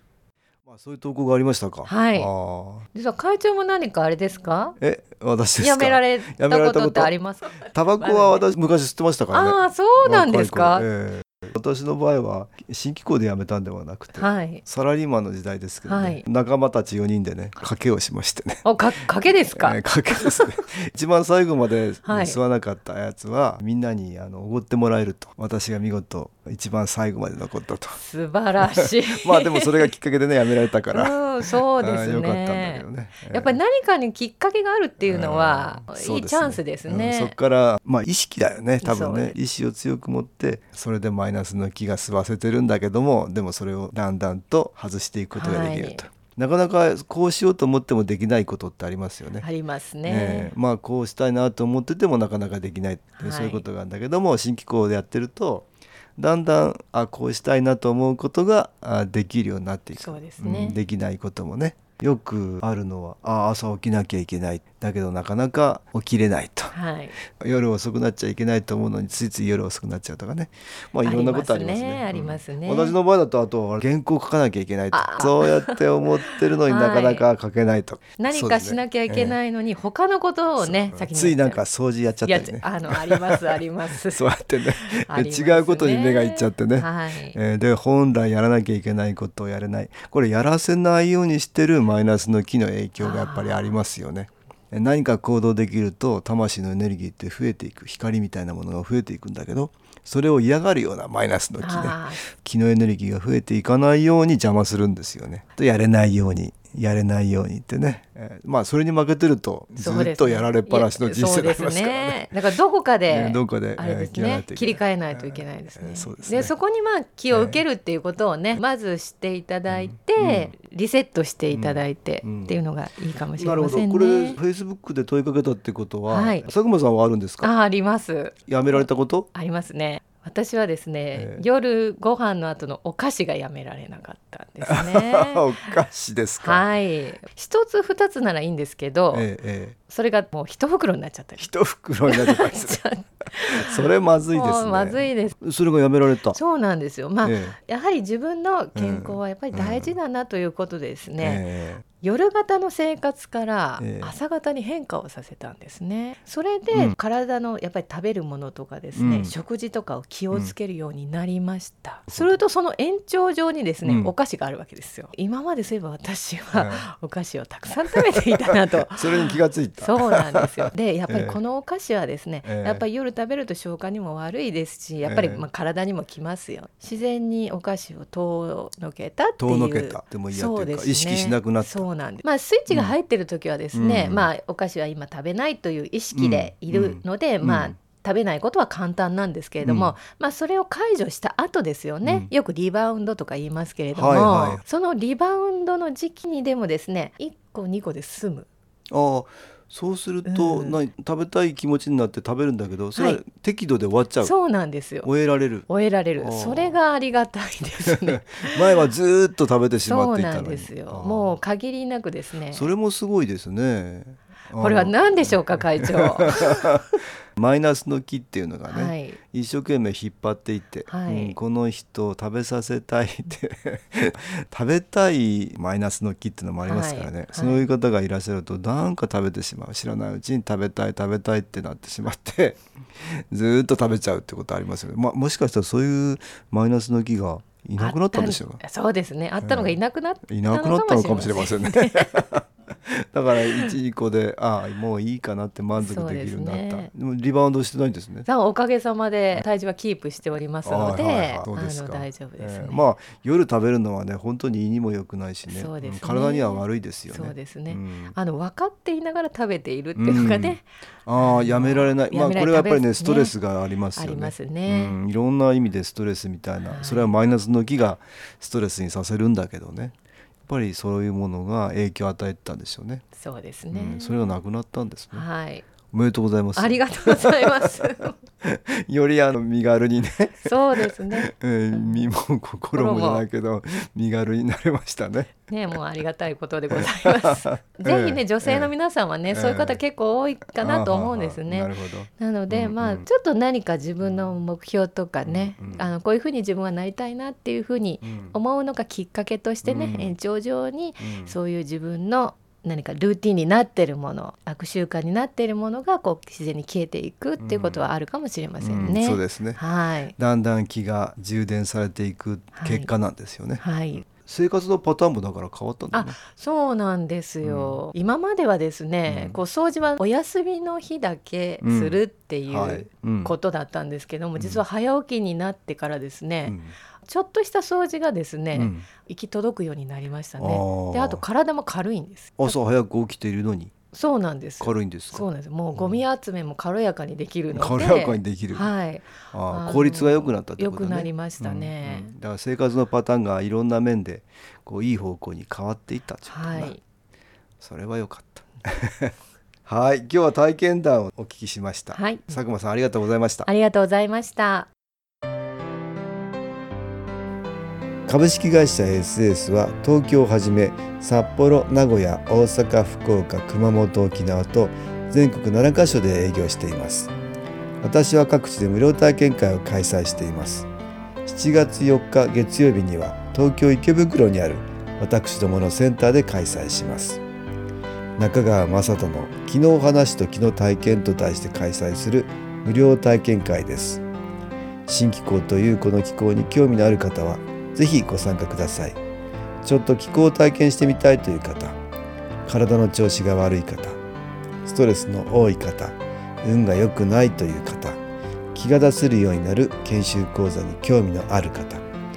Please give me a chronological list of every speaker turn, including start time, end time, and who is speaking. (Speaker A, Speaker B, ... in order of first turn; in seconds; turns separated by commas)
Speaker A: 0.7-2.9, Speaker B: 1.9-2.3, Speaker B: 2.9-4.8, Speaker A: 4.8-18.7, Speaker B: 5.6-8.5, Speaker B: 9.3-10.8, Speaker B: 14.2-14.6, Speaker B: 15.9-16.2, Speaker B: 18.6-20.5, Speaker A: 19.5-28.0, Speaker B: 22.1-22.4, Speaker B: 28.0-29.9, Speaker A: 28.7-33.6, Speaker B: 30.9-37.4, Speaker A: 35.0-49.5, Speaker B: 38.8-39.4, Speaker B: 45.3-46.0, Speaker B: 49.4-50.5, Speaker A: 50.0-66.7, Speaker B: 53.2-53.7, Speaker B: 60.0-60.8, Speaker B: 66.7-67.2, Speaker A: 67.4-79.4, Speaker B: 71.0-73.0, Speaker B: 74.9-77.3, Speaker B: 78.2-81.6, Speaker A: 80.6-112.4, Speaker B: 82.2-87.4, Speaker B: 93.0-93.7, Speaker B: 101.6-102.2, Speaker B: 109.8-124.4, Speaker A: 113.1-116.5, Speaker A: 117.3-117.6, Speaker A: 119.7-120.5, Speaker A: 121.5-122.6, Speaker A: 123.4-127.5, Speaker B: 126.1-126.5, Speaker B: 127.4-135.8, Speaker A: 128.5-129.3, Speaker A: 131.1-131.4, Speaker A: 134.6-136.6, Speaker B: 136.4-139.3, Speaker A: 139.1-139.8, Speaker B: 139.9-141.5, Speaker A: 141.4-142.8, Speaker B: 142.0-145.4, Speaker A: 143.4-146.4, Speaker B: 146.3-151.4, Speaker A: 147.2-147.6, Speaker A: 148.8-149.9, Speaker A: 151.2-151.8, Speaker B: 152.0-198.5, Speaker A: 153.8-154.2, Speaker A: 158.9-159.3, Speaker A: 163.8-164.1, Speaker A: 166.5-166.9, Speaker A: 169.0-170.5, Speaker A: 171.1-171.4, Speaker A: 172.4-172.8, Speaker A: 175.0-175.5, Speaker A: 179.4-181.9, Speaker A: 183.7-184.3, Speaker A: 186.1-187.8, Speaker A: 189.6-189.9, Speaker A: 192.1-192.3, Speaker A: 193.9-194.6, Speaker A: 198.9-204.4, Speaker B: 200.3-200.8, Speaker B: 202.9-203.2, Speaker B: 204.2-205.1, Speaker A: 205.0-205.7, Speaker B: 205.7-208.6, Speaker A: 206.2-206.8, Speaker A: 207.9-211.4, Speaker B: 209.9-212.7, Speaker A: 212.5-238.6, Speaker B: 214.6-216.8, Speaker B: 218.7-219.2, Speaker B: 220.9-221.4, Speaker B: 226.7-227.7, Speaker B: 237.8-242.3, Speaker A: 239.4-239.8, Speaker A: 240.3-248.3, Speaker B: 245.8-246.9, Speaker B: 248.3-252.8, Speaker A: 250.7-258.2, Speaker B: 255.5-263.4, Speaker A: 260.0-273.1, Speaker B: 263.9-265.0, Speaker B: 266.6-267.1, Speaker B: 273.1-274.2, Speaker A: 273.7-275.3, Speaker B: 275.1-275.6, Speaker A: 275.9-277.7, Speaker B: 276.6-278.2, Speaker A: 278.4-285.3, Speaker B: 280.4-281.9, Speaker B: 282.7-283.2, Speaker B: 285.5-310.1, Speaker A: 286.7-288.7, Speaker A: 289.3-289.8, Speaker A: 290.6-293.1, Speaker A: 294.0-294.3, Speaker A: 295.2-295.9, Speaker A: 298.0-298.4, Speaker A: 299.6-300.2, Speaker A: 301.0-301.3, Speaker A: 307.4-307.9, Speaker A: 308.6-309.6, Speaker A: 310.2-316.2, Speaker B: 312.6-312.9, Speaker B: 313.6-314.1, Speaker B: 315.9-332.6, Speaker A: 317.4-317.8, Speaker A: 319.1-319.4, Speaker A: 321.6-323.3, Speaker A: 324.4-324.6, Speaker A: 326.5-326.7, Speaker A: 328.6-328.9, Speaker A: 330.4-331.3, Speaker A: 332.4-333.7, Speaker B: 333.9-342.1, Speaker A: 334.6-336.0, Speaker A: 337.5-338.7, Speaker A: 339.3-346.8, Speaker B: 346.3-346.8, Speaker A: 347.6-349.1, Speaker A: 349.7-353.5, Speaker B: 351.9-352.4, Speaker B: 353.5-354.7, Speaker A: 358.1-367.1, Speaker A: 367.8-370.7, Speaker A: 371.2-377.2, Speaker A: 378.2-384.0, Speaker A: 384.9-389.0, Speaker A: 389.6-391.8, Speaker A: 392.5-394.0, Speaker A: 394.6-398.0, Speaker A: 398.5-401.9